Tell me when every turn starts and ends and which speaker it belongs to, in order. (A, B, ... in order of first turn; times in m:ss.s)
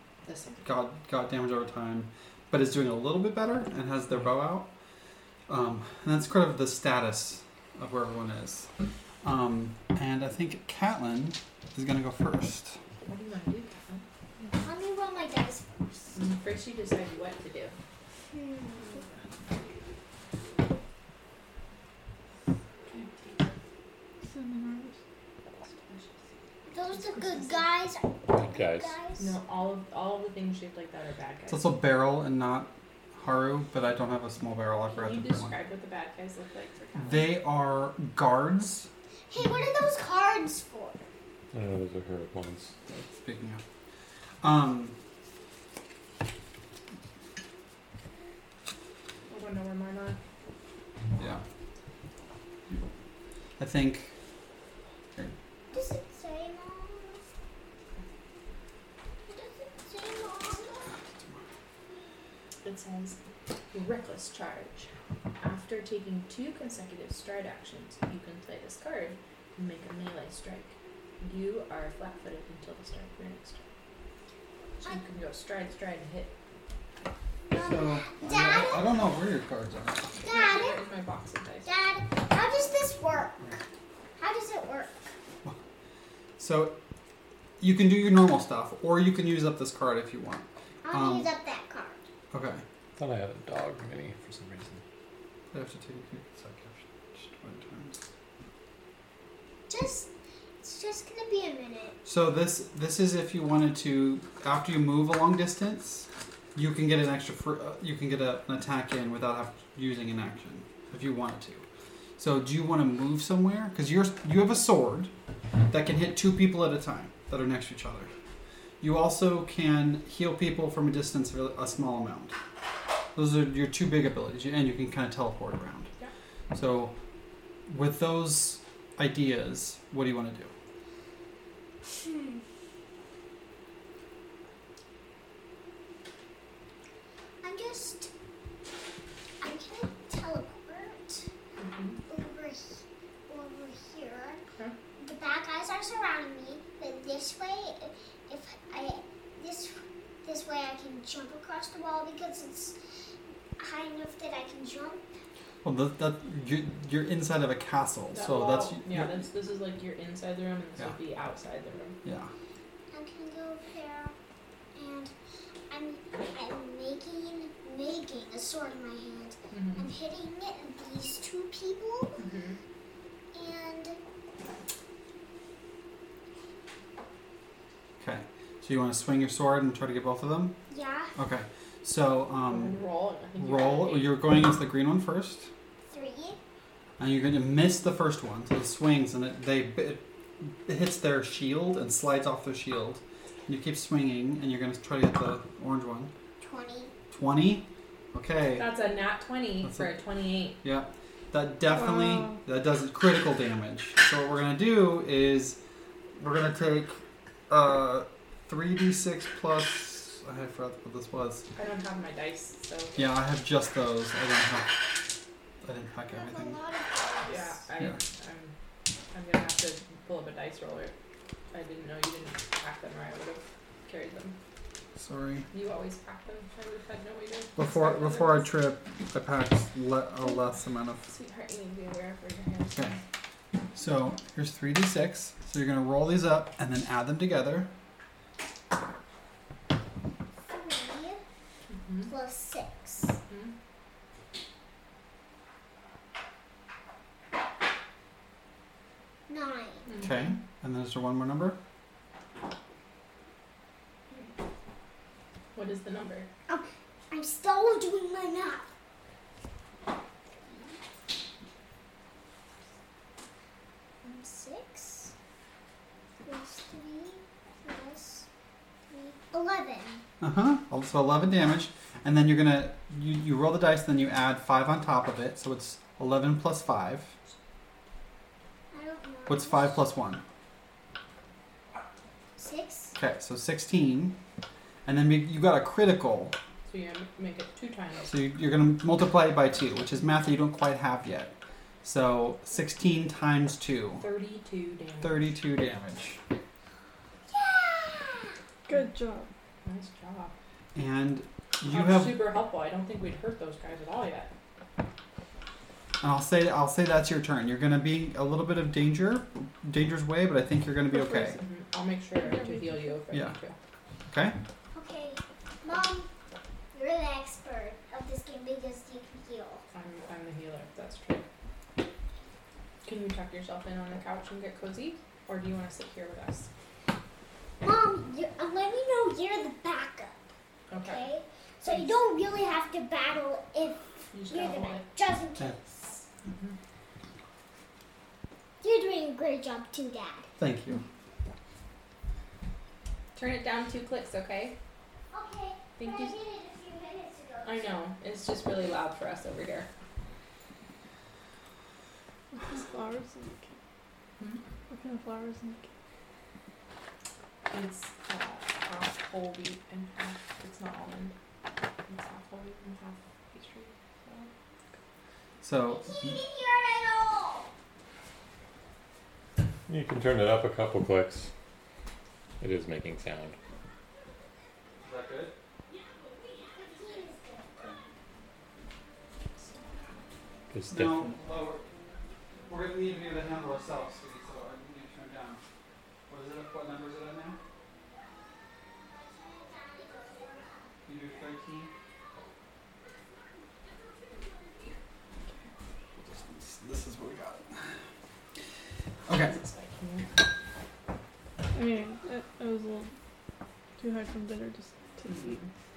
0:00.2-0:00.6 A
0:00.6-0:04.7 B
0:05.5-0:08.7 B
0:09.2-0:12.8 B
0:13.0-0:14.0 A
0:14.6-0:16.2 C
0:16.2-0:17.8 A
0:18.3-0:19.0 C
0:22.9-0:23.5 A
0:24.3-0:25.0 D
0:25.7-0:26.1 A
0:26.7-0:29.3 C
0:26.9-0:27.7 A
0:28.3-0:28.9 E
0:29.2-0:31.7 A
0:31.5-0:35.6 B
0:34.9-0:37.3 A
0:37.0-0:38.9 B
0:39.3-0:41.0 C
0:41.5-0:42.7 E
0:42.9-0:43.6 B
0:44.4-0:45.0 B
0:49.3-0:50.2 A
0:51.2-0:51.4 B
0:53.6-0:54.1 B
0:55.7-0:57.2 C
0:59.3-1:00.9 C
1:01.0-1:01.4 B
1:02.6-1:03.2 A
1:03.7-1:04.9 A
1:05.4-1:13.6 A
1:14.8-1:16.3 A
1:17.5-1:18.9 C
1:17.6-1:20.1 B
1:20.2-1:21.7 A
1:20.2-1:20.8 C
1:21.6-1:23.5 C
1:24.2-1:25.0 C
1:26.4-1:26.8 B
1:27.6-1:31.3 B
1:30.8-1:32.0 C
1:32.3-1:32.6 B
1:33.0-1:34.8 E
1:35.5-1:38.0 B
1:39.7-1:40.1 C
1:40.6-1:42.0 C
1:42.0-1:51.6 B
1:52.2-1:55.1 B
1:55.7-1:58.1 B
1:58.8-2:02.3 B
2:03.1-2:05.9 B
2:06.5-2:07.0 B
2:07.7-2:10.5 B
2:12.0-2:12.4 C
2:17.4-2:18.1 C
2:19.4-2:21.2 C
2:21.6-2:22.0 A
2:22.1-2:24.4 C
2:25.0-2:32.8 C
2:33.6-2:35.1 C
2:35.6-2:39.2 B
2:38.1-2:42.0 A
2:42.0-2:42.3 B
2:42.9-2:44.1 C
2:44.8-2:45.1 C
2:45.7-2:52.2 C
2:49.5-2:49.8 A
2:52.2-2:52.6 A
2:53.3-2:54.0 C
2:58.0-3:00.6 B
3:00.7-3:01.1 C
3:01.2-3:02.8 B
3:02.4-3:04.2 A
3:03.4-3:05.5 B
3:05.9-3:06.4 C
3:07.0-3:16.1 B
3:16.4-3:16.9 C
3:17.1-3:18.7 B
3:18.6-3:20.6 A
3:19.6-3:19.9 B
3:20.6-3:25.6 B
3:21.8-3:22.4 D
3:26.2-3:31.5 B
3:31.6-3:33.0 A
3:33.0-3:34.8 B
3:35.6-3:36.6 B
3:36.1-3:37.6 C
3:37.2-3:38.5 A
3:39.1-3:40.9 A
3:41.5-3:44.4 A
3:45.0-3:45.5 B
3:45.5-3:48.5 A
3:47.6-3:51.0 B
3:51.1-3:53.0 A
3:52.7-3:52.9 B
3:53.7-3:57.7 B
4:00.5-4:01.2 C
4:01.7-4:02.1 A
4:02.1-4:03.2 C
4:03.3-4:03.5 A
4:09.3-4:09.9 C
4:09.8-4:10.3 A
4:10.0-4:11.6 B
4:15.5-4:16.3 A
4:16.5-4:18.7 C
4:24.0-4:25.1 C
4:26.2-4:28.2 C
4:28.9-4:30.0 C
4:30.2-4:37.1 B
4:38.7-4:39.8 C
4:39.3-4:40.2 B
4:42.4-4:42.9 C
4:43.0-4:44.2 B
4:44.8-4:46.4 B
4:46.7-4:48.1 A
4:48.1-4:54.0 B
4:54.0-4:55.3 A
4:55.0-4:56.2 B
4:57.3-4:58.2 C
4:58.7-4:59.3 D
4:59.6-5:00.3 A
5:00.8-5:02.3 B
5:01.6-5:04.3 A
5:06.0-5:11.4 B
5:10.9-5:13.6 A
5:12.2-5:12.9 D
5:14.1-5:14.4 B
5:14.7-5:16.1 C
5:16.7-5:19.6 C
5:19.7-5:21.2 A
5:22.8-5:26.5 A
5:27.6-5:30.2 C
5:30.7-5:31.1 A
5:30.8-5:36.0 C
5:31.6-5:32.0 A
5:34.1-5:34.9 A
5:36.3-5:36.5 A
5:38.6-5:40.3 C
5:40.4-5:40.8 B
5:43.2-5:44.6 A
5:45.1-5:47.8 C
5:45.8-5:46.2 A
5:47.4-5:49.7 A
5:52.3-5:53.6 D
5:54.7-5:55.7 D
5:57.5-6:01.1 A
6:01.8-6:04.3 A
6:05.4-6:06.2 B
6:05.6-6:07.5 C
6:09.7-6:11.3 E
6:12.4-6:13.4 E
6:14.8-6:15.4 B
6:16.4-6:17.6 C
6:19.4-6:20.0 A
6:20.5-6:21.1 E
6:20.7-6:21.6 B
6:22.5-6:25.4 B
6:26.1-6:27.4 B
6:28.9-6:30.7 C
6:30.8-6:31.7 B
6:36.0-6:37.8 B
6:39.1-6:39.4 B
6:39.1-6:40.1 A
6:41.5-6:42.9 D
6:43.8-6:45.4 D
6:45.0-6:45.5 A